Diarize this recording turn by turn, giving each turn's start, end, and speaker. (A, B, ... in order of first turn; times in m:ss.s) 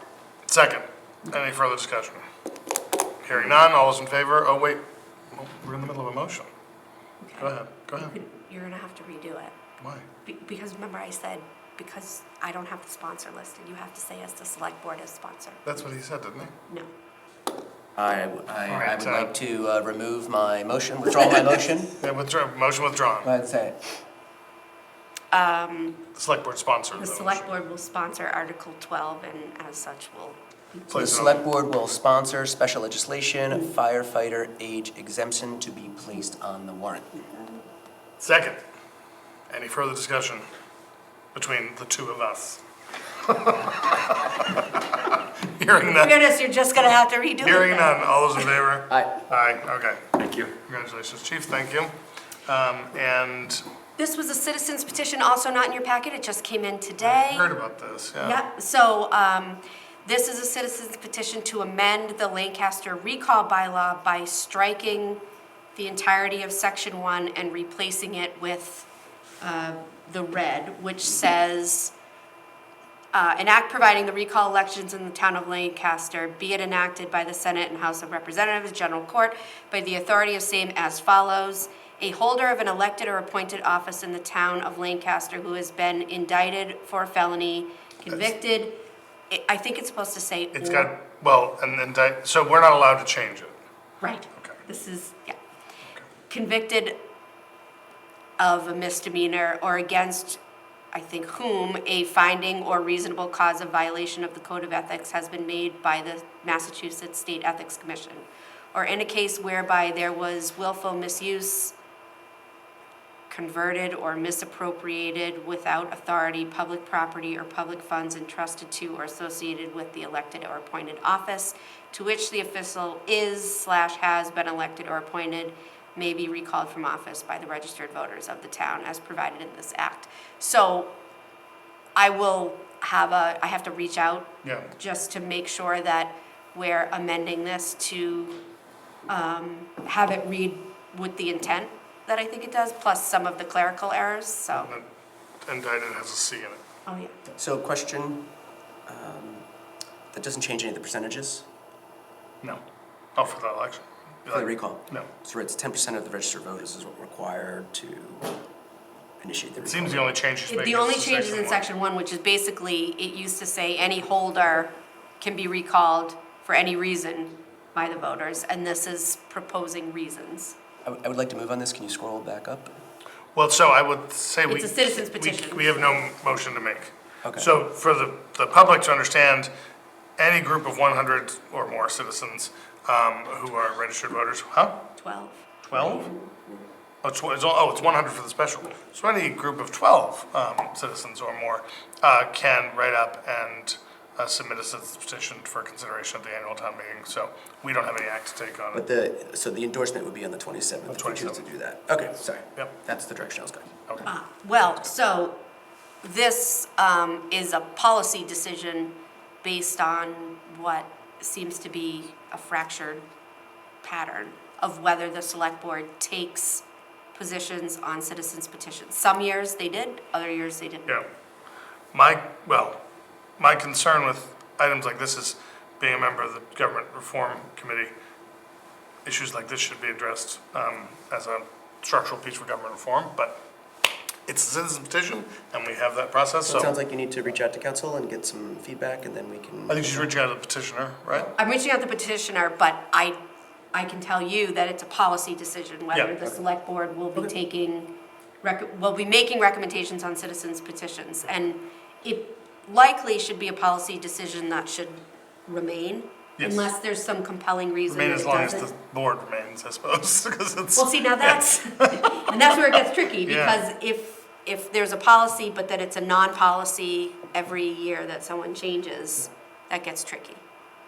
0:00.5-0:02.2 A
0:03.2-0:06.5 A
0:07.2-0:09.5 B
0:07.4-0:08.2 A
0:09.8-0:10.0 A
0:10.2-0:15.6 B
0:15.6-0:16.5 A
0:18.0-0:22.0 C
0:18.7-0:19.3 A
0:22.0-0:23.3 A
0:23.2-0:23.9 C
0:25.3-0:26.0 B
0:26.1-0:27.5 A
0:27.0-0:30.9 B
0:30.9-0:31.5 A
0:30.9-0:37.2 C
0:38.2-0:38.6 A
0:39.5-0:40.4 A
0:41.3-0:42.6 A
0:43.2-0:46.1 A
0:45.8-0:48.6 B
0:47.4-0:50.0 A
0:48.9-0:49.2 C
0:50.2-0:50.5 C
0:50.6-0:51.9 A
0:52.4-0:53.6 A
0:54.0-0:57.5 B
0:57.0-0:58.4 A
0:58.2-1:05.2 B
1:05.8-1:08.9 B
1:09.4-1:11.9 B
1:13.1-1:28.8 B
1:29.3-1:30.9 B
1:30.5-1:33.6 A
1:34.0-1:35.4 B
1:34.3-1:34.6 A
1:36.3-1:37.0 B
1:38.4-1:40.4 B
1:40.9-1:51.8 B
1:53.3-2:10.9 B
2:12.0-2:18.4 B
2:14.4-2:14.7 A
2:19.1-2:24.7 B
2:24.5-2:24.8 A
2:25.4-2:26.6 A
2:26.9-2:27.2 B
2:27.4-2:28.3 C
2:28.9-2:29.4 C
2:30.1-2:31.5 C
2:33.1-2:35.1 A
2:34.3-2:38.3 C
2:39.2-2:40.1 C
2:39.6-2:41.6 A
2:40.5-2:50.6 B
2:50.8-2:52.7 C
2:53.3-2:59.5 A
2:54.4-2:56.0 B
2:57.2-2:57.5 C
3:00.2-3:04.8 A
3:05.0-3:06.6 B
3:05.6-3:06.1 A
3:07.0-3:18.8 A
3:18.7-3:23.7 C
3:20.9-3:21.4 A
3:24.0-3:25.4 B
3:26.0-3:33.0 B
3:33.8-3:36.6 B
3:37.1-3:41.0 B
3:41.9-3:42.8 A
3:43.4-3:47.9 A
3:49.0-3:53.4 A
3:54.3-3:56.7 A
3:56.4-4:00.1 C
3:59.7-4:01.3 A
4:01.4-4:03.2 B
4:03.7-4:18.7 B
4:16.4-4:16.7 A
4:17.9-4:23.6 A
4:20.8-4:30.4 B